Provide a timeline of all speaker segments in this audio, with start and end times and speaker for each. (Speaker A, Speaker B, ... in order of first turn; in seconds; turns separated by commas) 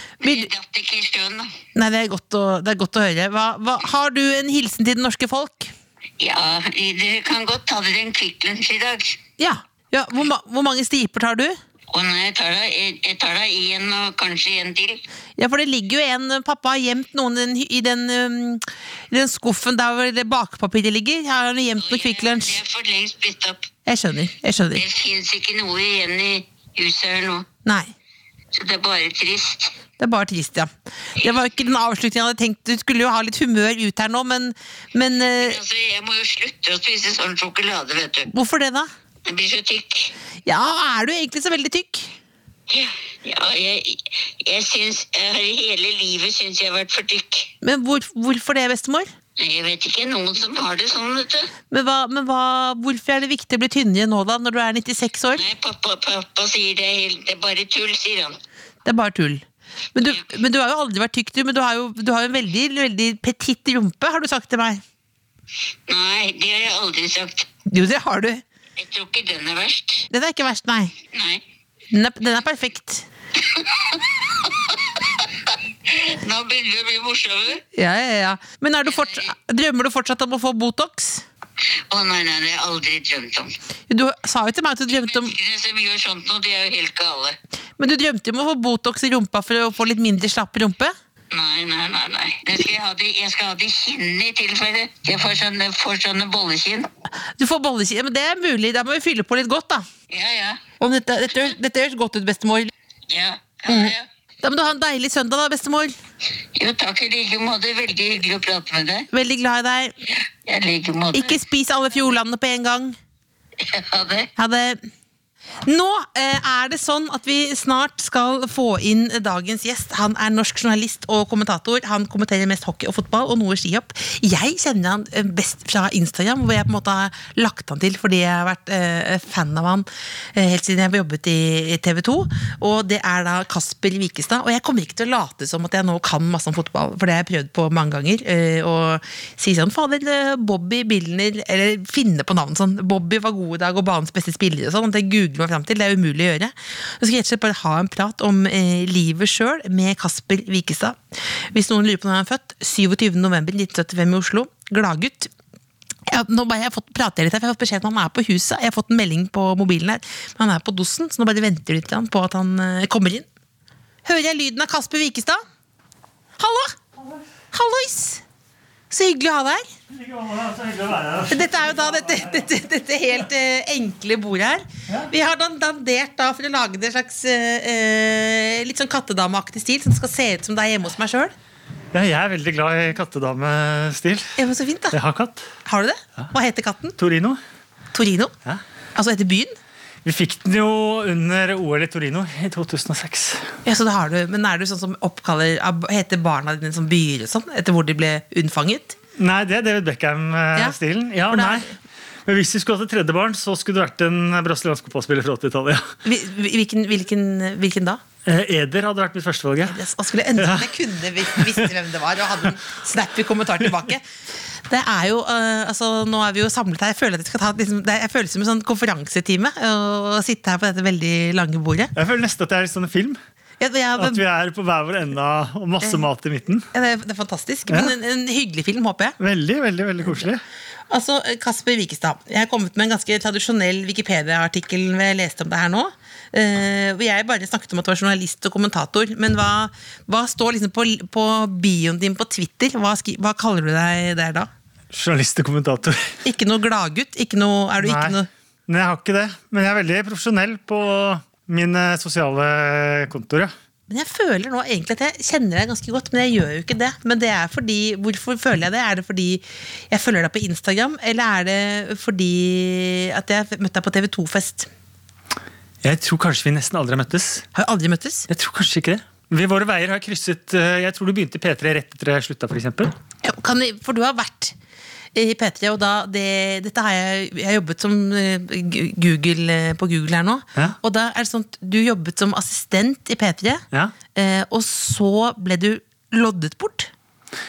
Speaker A: 0.2-1.5, Speaker B: 0.2-0.5, Speaker B: 1.7-5.7, Speaker A: 6.2-9.2, Speaker B: 9.4-11.6, Speaker A: 11.9-15.0, Speaker B: 15.4-22.6, Speaker A: 21.8-23.6, Speaker B: 23.9-24.8, Speaker A: 24.7-27.4, Speaker B: 27.6-27.9, Speaker A: 28.5-29.7, Speaker B: 30.0-35.6, Speaker A: 35.4-38.3, Speaker B: 38.3-38.9, Speaker A: 39.2-40.1, Speaker B: 40.4-42.1, Speaker A: 42.7-47.5, Speaker B: 47.6-49.1, Speaker A: 49.4-51.5, Speaker B: 51.7-55.4, Speaker A: 55.4-58.4, Speaker B: 58.8-59.4, Speaker B: 59.9-64.8, Speaker A: 65.9-67.5, Speaker B: 67.7-68.4, Speaker A: 68.8-70.0, Speaker B: 70.1-70.9, Speaker A: 71.1-71.4, Speaker B: 71.9-73.1, Speaker A: 73.4-77.6, Speaker B: 77.7-81.2, Speaker A: 78.9-79.3, Speaker A: 81.9-83.5, Speaker B: 83.9-85.3, Speaker A: 84.9-87.4, Speaker B: 87.8-90.9, Speaker A: 91.3-96.9, Speaker B: 97.4-99.9, Speaker A: 100.1-100.6, Speaker B: 100.8-102.7, Speaker A: 103.1-104.0, Speaker B: 103.7-105.9, Speaker A: 106.5-109.1, Speaker B: 109.1-109.9, Speaker A: 110.1-111.4, Speaker B: 111.1-113.0, Speaker A: 113.6-114.3, Speaker B: 114.4-114.8, Speaker B: 115.6-155.3, Speaker B: 156.1-163.2, Speaker B: 164.0-165.4, Speaker B: 166.4-166.8, Speaker B: 167.5-168.2, Speaker B: 168.9-169.7, Speaker C: 169.9-172.4, Speaker B: 171.3-181.3, Speaker C: 181.9-184.4, Speaker B: 184.4-185.0, Speaker C: 184.9-185.5, Speaker B: 185.6-186.9, Speaker C: 187.0-187.4, Speaker B: 187.9-188.3, Speaker B: 188.9-189.5, Speaker C: 190.0-193.5, Speaker B: 193.6-199.0, Speaker C: 199.2-201.7, Speaker B: 201.3-201.7, Speaker C: 202.2-205.9, Speaker B: 206.0-208.0, Speaker C: 208.2-209.8, Speaker B: 209.6-214.0, Speaker C: 210.4-210.7, Speaker C: 211.3-211.7, Speaker B: 214.7-221.9, Speaker C: 221.9-223.2, Speaker B: 223.6-224.2, Speaker C: 224.0-226.7, Speaker B: 226.7-229.2, Speaker C: 229.2-230.4, Speaker B: 230.9-244.5, Speaker C: 244.9-246.2, Speaker B: 246.2-248.3, Speaker C: 247.8-253.5, Speaker B: 253.9-264.7, Speaker C: 265.8-267.4, Speaker B: 267.5-268.3, Speaker C: 268.3-272.9, Speaker B: 273.2-274.5, Speaker B: 275.1-286.9